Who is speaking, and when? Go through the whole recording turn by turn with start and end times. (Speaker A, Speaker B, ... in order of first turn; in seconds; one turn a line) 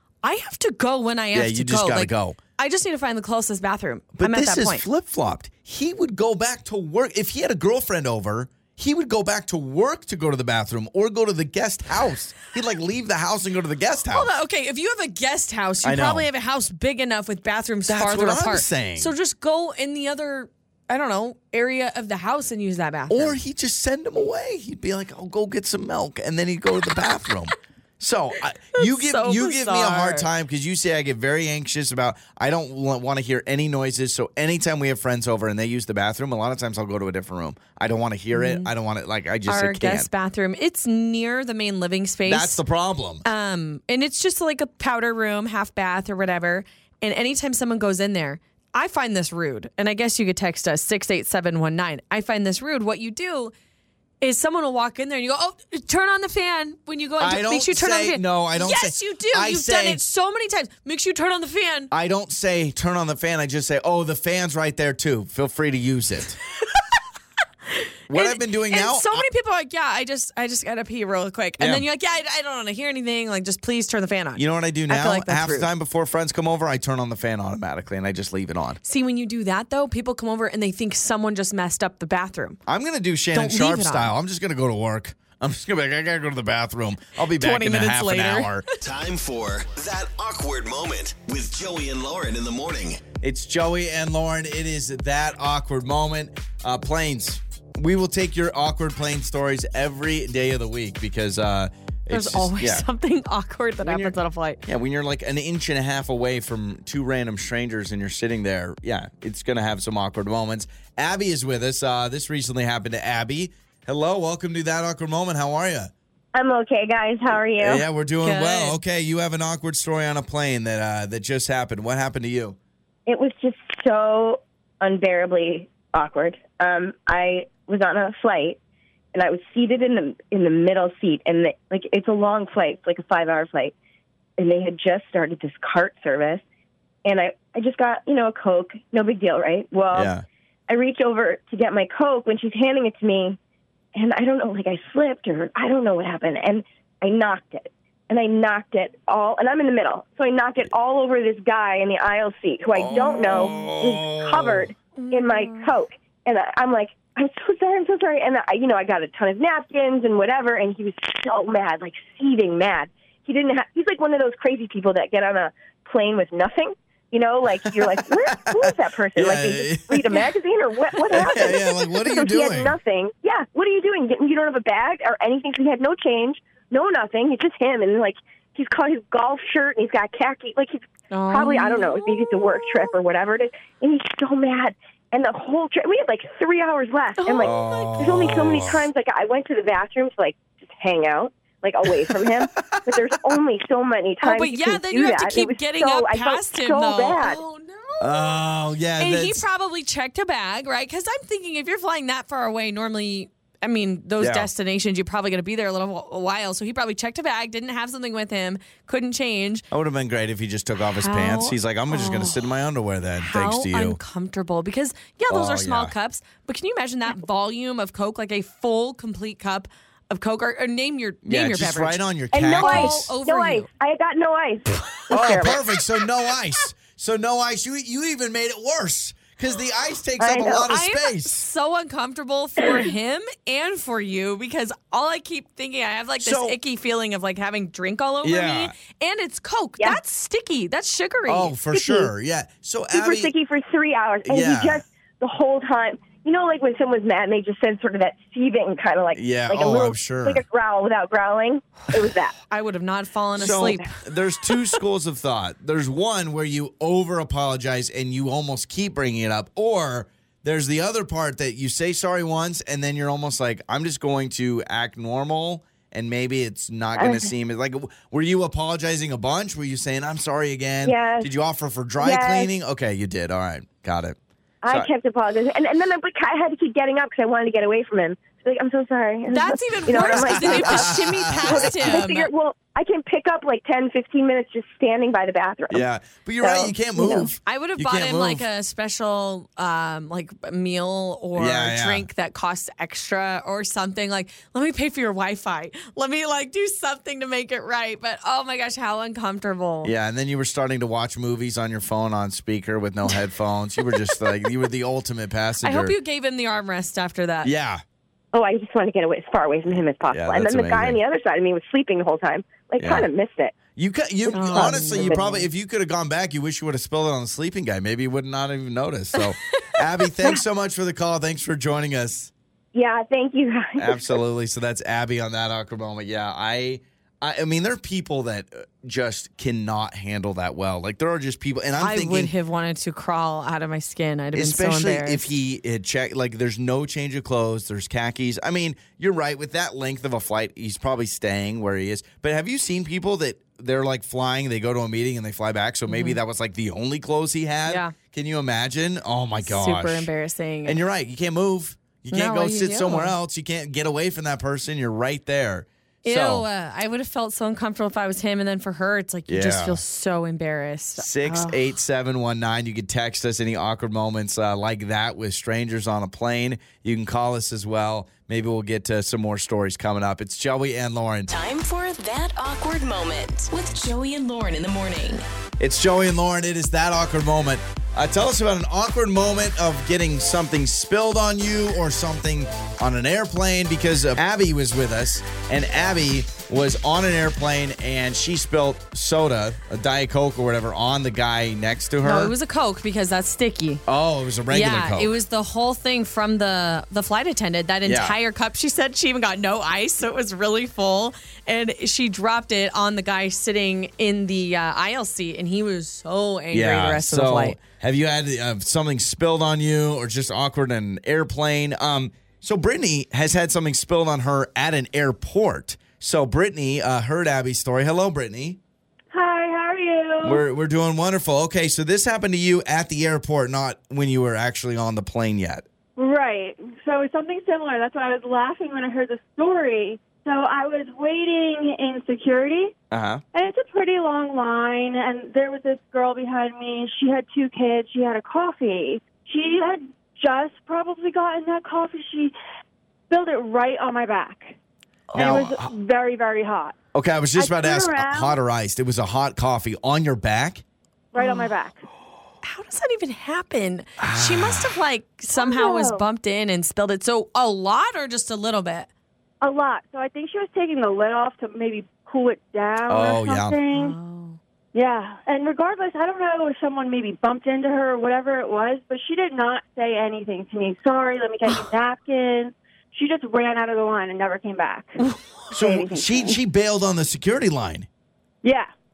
Speaker A: 0.2-4.8
Speaker B: 1.3-2.4
Speaker B: 4.1-14.3
Speaker A: 14.1-23.4
Speaker B: 15.8-16.3
Speaker B: 17.9-19.1
Speaker B: 23.1-40.1
Speaker A: 28.8-30.3
Speaker A: 38.3-38.7
Speaker A: 39.5-42.6
Speaker B: 42.3-43.2
Speaker A: 43.2-53.5
Speaker A: 54.2-61.9
Speaker B: 57.2-60.0
Speaker B: 61.9-66.4
Speaker A: 67.7-75.7
Speaker B: 68.1-69.2
Speaker B: 71.6-71.8
Speaker B: 74.4-78.8
Speaker A: 78.8-82.6
Speaker B: 82.7-88.7
Speaker A: 83.3-84.1
Speaker A: 87.4-88.6
Speaker C: 88.8-93.1
Speaker B: 93.2-102.8
Speaker A: 102.1-104.6
Speaker B: 103.8-115.9
Speaker D: 116.3-117.8
Speaker B: 117.6-122.6
Speaker A: 118.2-118.8
Speaker D: 123.1-128.6
Speaker D: 129.1-133.7
Speaker D: 134.4-136.4
Speaker D: 137.1-140.1
Speaker B: 139.9-140.2
Speaker D: 140.7-143.4
Speaker D: 143.9-197.4
Speaker B: 152.8-154.7
Speaker A: 152.9-153.6
Speaker A: 155.0-155.7
Speaker B: 167.9-170.2
Speaker B: 171.1-172.8
Speaker A: 181.1-182.9
Speaker A: 187.2-188.4
Speaker B: 187.4-188.9
Speaker B: 192.1-193.1
Speaker A: 194.2-198.4
Speaker B: 198.0-199.4
Speaker A: 199.0-209.6
Speaker B: 204.2-204.5
Speaker B: 209.7-214.0
Speaker A: 211.0-212.4
Speaker A: 213.2-223.7
Speaker B: 215.3-215.9
Speaker B: 221.2-223.1
Speaker D: 222.3-226.0
Speaker B: 225.1-231.4
Speaker D: 230.2-230.7
Speaker A: 230.6-241.6
Speaker B: 236.2-236.6
Speaker B: 238.2-238.7
Speaker B: 241.3-243.3
Speaker D: 241.7-242.1
Speaker D: 242.9-252.3
Speaker B: 244.3-244.8
Speaker B: 249.2-250.4
Speaker A: 252.5-253.9
Speaker B: 253.4-274.2
Speaker D: 267.0-267.3
Speaker D: 270.8-271.3
Speaker D: 272.0-272.5
Speaker D: 274.6-285.9
Speaker A: 279.3-282.3
Speaker B: 279.9-282.0
Speaker B: 285.7-288.4
Speaker D: 286.4-287.3
Speaker A: 287.3-299.9
Speaker B: 291.4-292.1
Speaker B: 299.8-305.9
Speaker A: 305.6-307.5
Speaker B: 307.4-307.8
Speaker D: 308.3-313.6
Speaker B: 310.1-311.0
Speaker B: 312.8-313.1
Speaker B: 313.8-322.3
Speaker D: 314.3-315.3
Speaker A: 314.3-315.4
Speaker A: 319.2-319.8
Speaker D: 322.7-324.2
Speaker B: 323.8-332.3
Speaker A: 331.8-335.3
Speaker B: 334.3-350.1
Speaker A: 345.9-346.2
Speaker A: 347.7-347.9
Speaker A: 349.4-350.8
Speaker B: 350.6-356.4
Speaker A: 352.1-353.1
Speaker A: 356.0-361.6
Speaker B: 359.3-359.8
Speaker B: 361.0-371.3
Speaker E: 371.3-375.2
Speaker B: 375.6-392.3
Speaker A: 392.0-393.8
Speaker B: 393.9-395.2
Speaker A: 394.5-407.6
Speaker B: 397.9-398.2
Speaker B: 406.5-418.6
Speaker F: 419.1-420.4
Speaker B: 420.2-425.7
Speaker F: 426.0-432.7
Speaker B: 432.9-433.2
Speaker F: 433.3-442.3
Speaker F: 443.1-444.6
Speaker B: 445.1-445.7
Speaker F: 445.1-446.8
Speaker B: 446.9-450.6
Speaker F: 447.4-448.4
Speaker F: 451.1-451.8
Speaker A: 451.2-451.5
Speaker A: 452.4-458.9
Speaker B: 454.0-454.7
Speaker F: 455.4-456.0
Speaker F: 459.4-464.0
Speaker B: 462.9-463.6
Speaker A: 463.7-464.4
Speaker F: 464.7-476.4
Speaker B: 475.5-477.9
Speaker F: 478.4-478.7